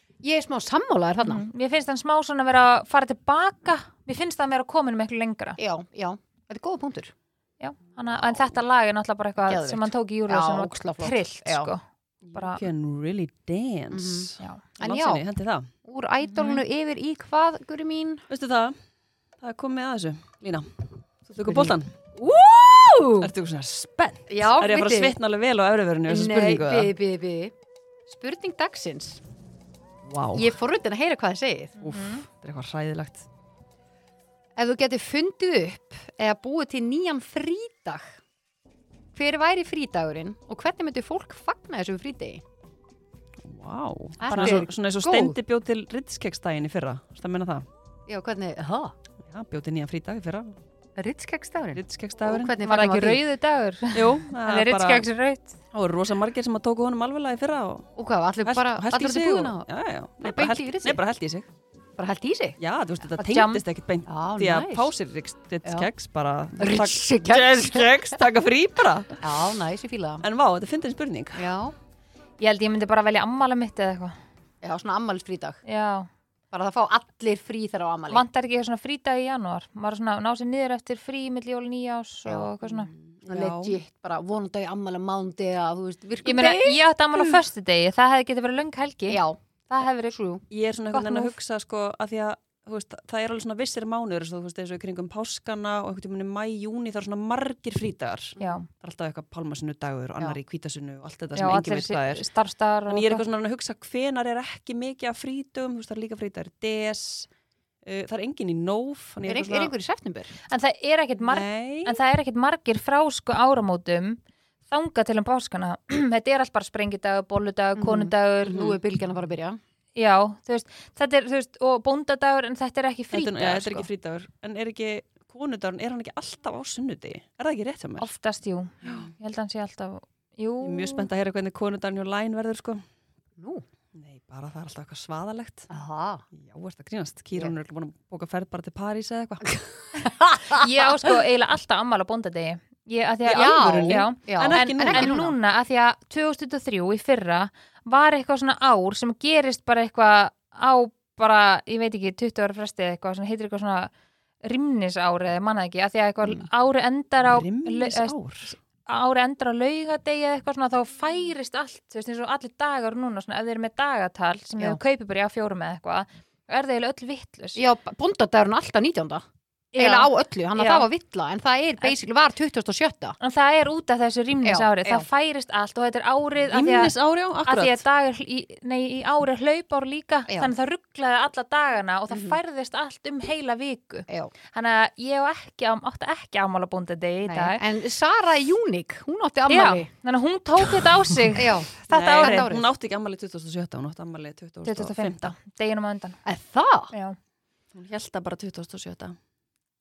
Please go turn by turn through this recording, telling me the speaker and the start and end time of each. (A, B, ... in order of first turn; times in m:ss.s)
0:00.2-0:01.4 A
0:01.2-0:05.6 B
0:05.6-0:07.1 A
0:07.6-0:12.6 B
0:09.5-0:11.7 A
0:12.2-0:15.7 C
0:13.9-0:15.2 A
0:15.8-0:18.2 A
0:16.2-0:16.6 B
0:18.3-0:18.8 C
0:19.4-0:22.0 C
0:21.4-0:23.3 A
0:23.2-0:26.9 C
0:24.3-0:25.2 A
0:26.1-0:27.5 A
0:28.1-0:29.2 A
0:30.0-0:30.5 C
0:30.3-0:31.8 A
0:31.8-0:32.2 B
0:31.8-0:33.3 C
0:34.6-0:38.2 A
0:39.1-0:42.4 A
0:43.4-0:47.6 C
0:44.2-0:45.4 A
0:44.3-0:44.6 B
0:48.1-0:48.9 A
0:49.2-0:50.6 C
0:51.0-0:53.2 A
0:51.7-0:52.6 C
0:52.6-0:55.6 B
0:53.9-0:55.0 C
0:55.7-0:57.9 C
0:58.0-0:59.6 A
0:58.4-1:01.5 C
1:00.2-1:01.0 A
1:02.0-1:02.6 A
1:02.6-1:09.2 C
1:03.2-1:03.6 B
1:04.1-1:04.9 A
1:06.6-1:08.0 A
1:09.2-1:10.2 A
1:10.2-1:11.5 C
1:11.4-1:11.7 A
1:12.4-1:14.2 B
1:14.6-1:15.6 A
1:15.6-1:16.1 B
1:16.5-1:18.2 A
1:18.1-1:22.9 B
1:22.2-1:27.4 A
1:23.1-1:23.8 C
1:26.2-1:31.4 B
1:29.1-1:29.4 A
1:30.5-1:42.2 C
1:38.4-1:38.6 A
1:38.4-1:38.6 B
1:41.4-1:43.2 B
1:42.9-1:47.3 C
1:47.8-1:49.7 C
1:49.2-1:50.4 A
1:50.5-1:58.7 B
1:51.2-1:52.0 C
1:57.8-1:59.6 A
1:58.5-1:58.8 C
2:00.0-2:03.9 B
2:03.1-2:08.1 C
2:08.0-2:11.1 B
2:08.8-2:09.1 C
2:10.6-2:12.8 C
2:13.4-2:13.6 A
2:13.9-2:15.7 C
2:15.7-2:16.2 A
2:16.4-2:19.6 C
2:20.0-2:20.6 A
2:20.5-2:33.9 B
2:23.2-2:25.3 A
2:23.3-2:25.2 C
2:34.4-2:47.6 B
2:37.2-2:38.5 C
2:47.6-2:49.2 A
2:49.7-2:50.9 B
2:49.7-2:53.2 A
2:53.2-2:56.9 B
2:54.4-2:55.1 A
2:56.5-2:57.8 C
2:57.4-3:07.6 B
3:02.1-3:02.4 A
3:07.2-3:09.9 A
3:09.5-3:12.4 B
3:11.3-3:12.7 A
3:11.9-3:15.3 C
3:14.6-3:16.2 B
3:16.2-3:16.9 A
3:16.9-3:17.2 B
3:17.7-3:19.2 C